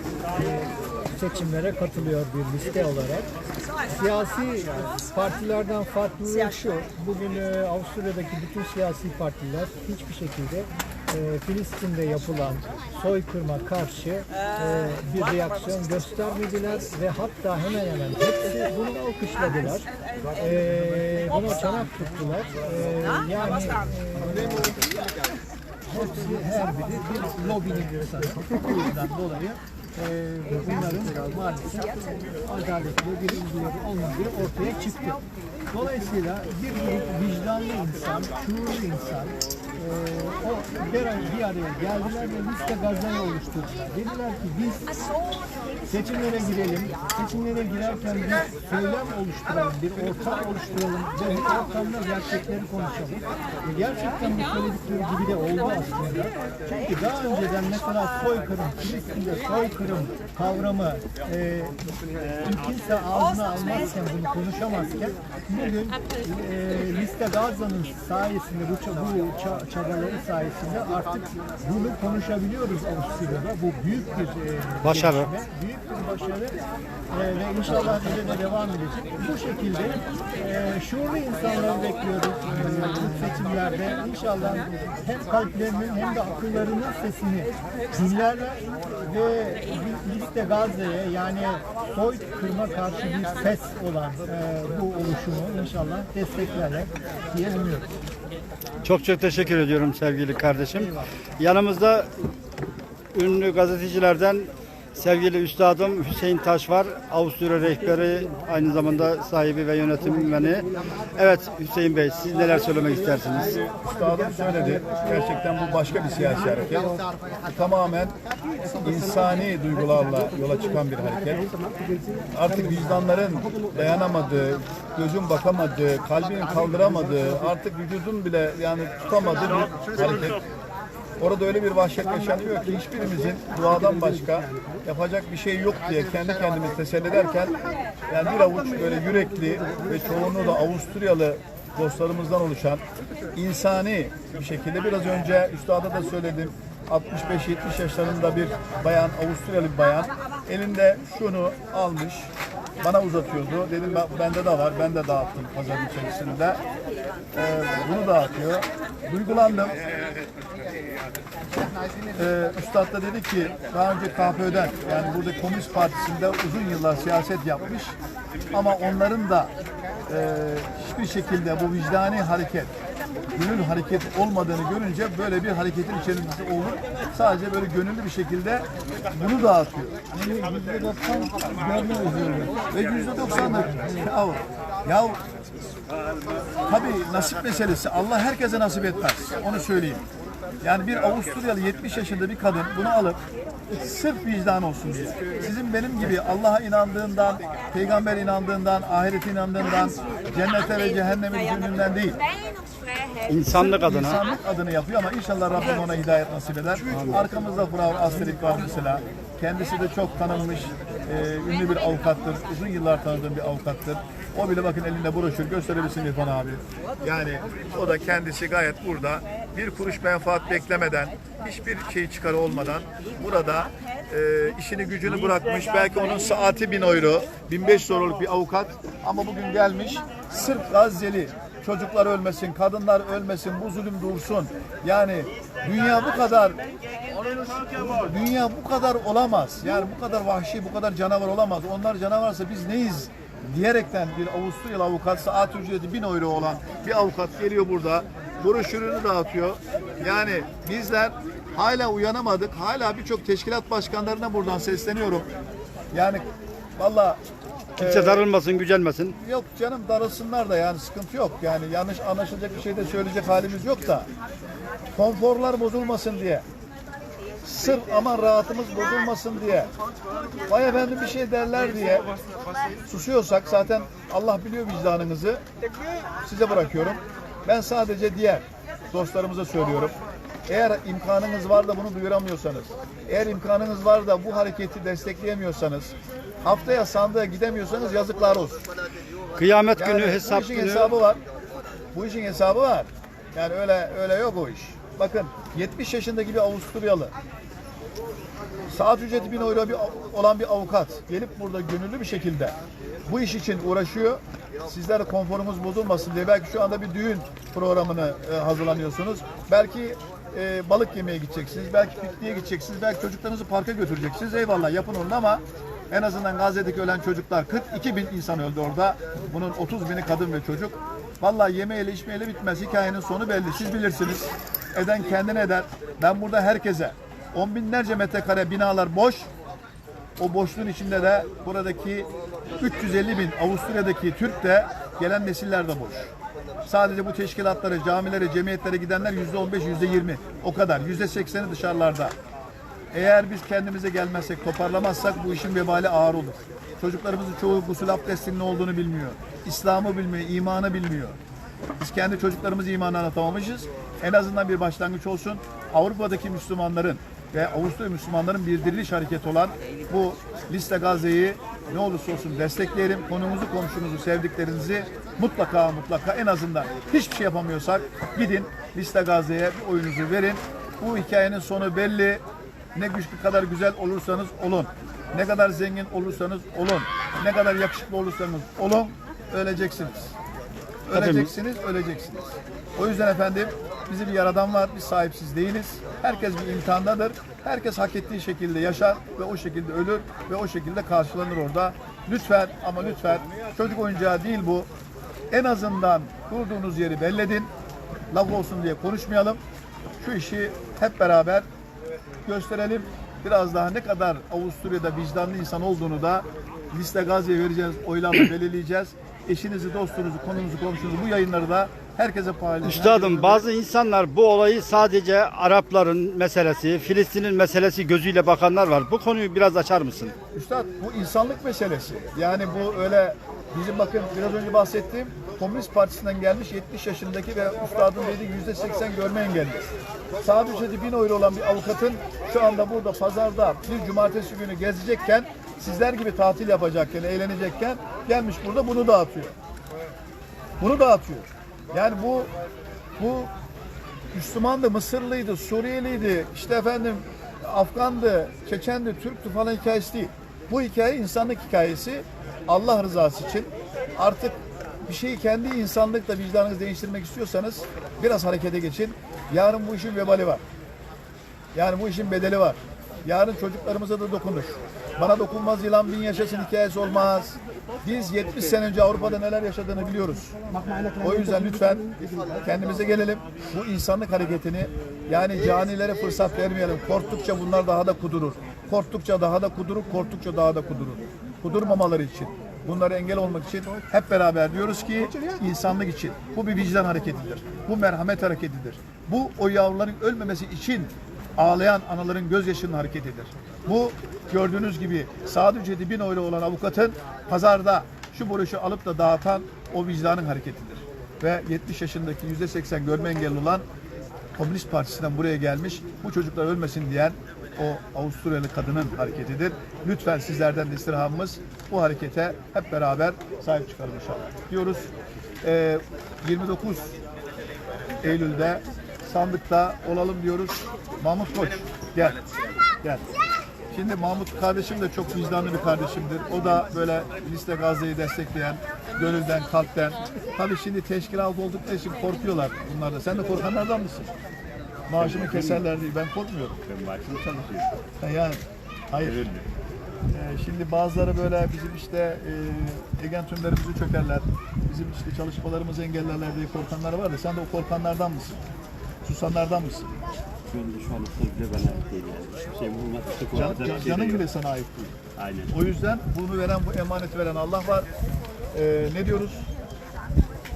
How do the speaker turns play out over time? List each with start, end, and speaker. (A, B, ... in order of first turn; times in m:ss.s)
0:00.3-0:03.3 A
0:03.9-0:24.8 A
0:25.9-0:44.9 A
0:45.8-1:01.8 A
1:02.4-1:16.6 A
1:14.8-1:15.3 B
1:17.1-1:37.9 A
1:38.8-1:42.1 B
1:43.1-1:50.6 B
1:51.2-1:53.4 B
1:53.3-1:57.0 C
1:57.5-1:58.2 C
1:58.8-2:01.4 C
2:02.3-2:10.4 C
2:11.2-2:17.6 C
2:18.1-2:22.8 C
2:23.3-2:36.6 C
2:37.3-2:39.8 C
2:42.1-2:47.9 C
2:48.5-2:49.5 C
2:50.1-2:52.7 C
2:53.3-3:00.0 C
3:00.1-3:02.6 A
3:02.7-3:05.2 C
3:06.6-3:10.0 C
3:10.6-3:22.2 C
3:23.3-3:24.1 B
3:23.5-3:56.6 C
3:57.8-4:15.3 C
4:15.9-4:16.2 C
4:16.8-4:17.2 C
4:17.8-4:18.2 C
4:17.9-4:19.1 B
4:19.2-4:24.1 C
4:24.9-4:26.4 C
4:27.4-4:29.7 C
4:30.5-4:32.1 C
4:32.9-4:35.4 C
4:36.2-4:40.0 C
4:40.5-4:48.6 C
4:49.4-4:50.8 B
4:49.8-4:51.2 C
4:51.9-4:57.1 C
4:58.7-5:02.6 C
5:03.1-5:29.3 C
5:30.2-5:36.1 C
5:36.6-5:42.1 C
5:42.9-5:51.2 C
5:51.8-6:12.2 C
6:12.7-6:20.1 C
6:20.9-6:22.2 C
6:20.9-6:21.2 B
6:22.8-6:34.7 C
6:35.3-6:37.5 C
6:38.1-6:39.4 C
6:40.0-6:41.4 C
6:42.2-6:53.4 C
6:52.6-7:00.1 B
7:00.3-7:09.7 C
7:10.2-7:19.3 C
7:20.6-7:22.3 C
7:23.0-7:23.3 C
7:24.1-7:40.4 C
7:41.5-7:50.4 C
7:51.0-7:51.9 C
7:52.4-8:23.6 C
8:24.4-8:34.9 C
8:35.4-8:37.0 C
8:38.0-8:42.2 C
8:43.7-8:54.1 C
8:54.9-8:56.6 C
8:55.0-8:55.6 D
8:56.6-8:57.7 D
8:58.0-8:59.2 C
8:59.0-8:59.4 D
9:00.1-9:08.4 C
9:09.0-9:09.9 C
9:10.5-9:14.2 D
9:13.3-9:14.9 C
9:15.2-9:15.5 D
9:15.5-9:17.9 C
9:18.5-9:19.5 C